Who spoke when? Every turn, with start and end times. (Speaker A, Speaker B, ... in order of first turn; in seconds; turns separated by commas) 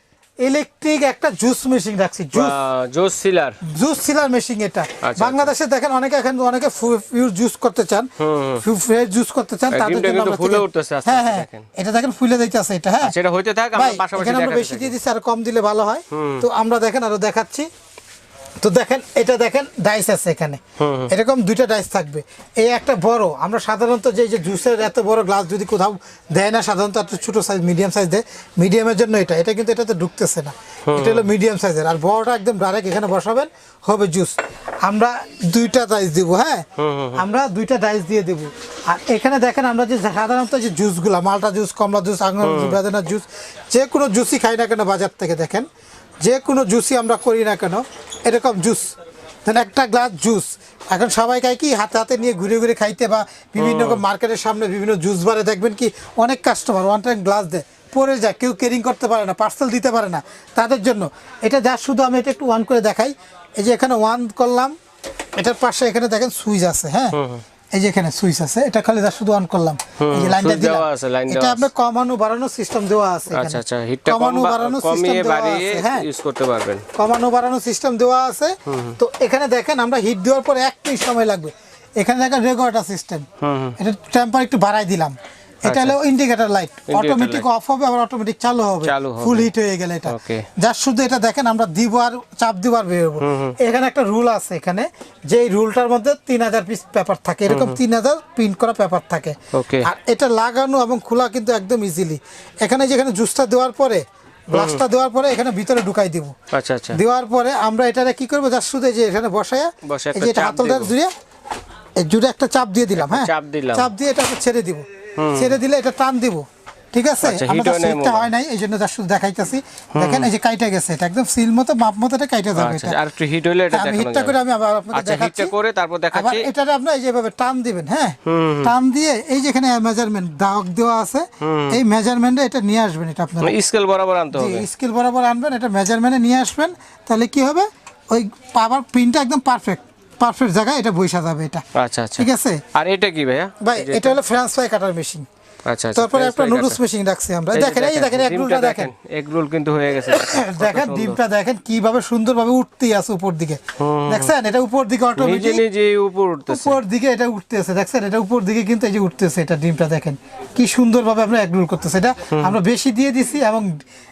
Speaker A: 0.4-2.6, Speaker B: 2.3-3.6, Speaker A: 3.7-8.1, Speaker B: 5.0-5.5, Speaker B: 8.2-8.6, Speaker A: 8.6-13.2, Speaker B: 9.7-11.7, Speaker B: 13.0-14.9, Speaker A: 13.8-17.7, Speaker B: 16.1-16.5, Speaker A: 18.6-36.6, Speaker B: 20.8-21.1, Speaker B: 30.9-31.3, Speaker B: 36.8-37.2, Speaker A: 37.1-45.7, Speaker B: 42.4-42.8, Speaker A: 46.2-48.9, Speaker A: 49.5-64.7, Speaker B: 53.6-54.0, Speaker A: 65.4-67.2, Speaker B: 67.1-67.4, Speaker A: 67.8-76.1, Speaker B: 70.0-71.7, Speaker B: 73.3-76.8, Speaker A: 77.0-83.3, Speaker B: 78.7-79.0, Speaker B: 83.4-83.8, Speaker A: 83.8-106.3, Speaker B: 85.7-86.0, Speaker B: 86.9-87.5, Speaker B: 88.8-89.5, Speaker B: 90.1-90.5, Speaker B: 93.2-93.5, Speaker B: 97.5-97.8, Speaker B: 99.5-99.9, Speaker B: 104.5-104.8, Speaker B: 106.5-107.0, Speaker A: 106.9-111.1, Speaker B: 109.8-110.9, Speaker A: 112.0-123.0, Speaker B: 113.0-113.9, Speaker B: 115.2-115.5, Speaker B: 117.2-118.3, Speaker B: 120.0-120.3, Speaker B: 122.6-124.4, Speaker A: 123.7-125.5, Speaker B: 124.9-126.5, Speaker A: 126.1-133.6, Speaker B: 128.3-128.7, Speaker B: 131.4-131.8, Speaker B: 133.4-134.7, Speaker A: 134.3-141.6, Speaker B: 141.8-144.2, Speaker A: 142.2-142.6, Speaker A: 143.6-145.3, Speaker B: 145.7-146.8, Speaker A: 146.0-148.9, Speaker B: 147.5-151.2, Speaker A: 150.0-155.6, Speaker B: 153.8-154.3, Speaker B: 155.2-156.8, Speaker A: 156.5-163.7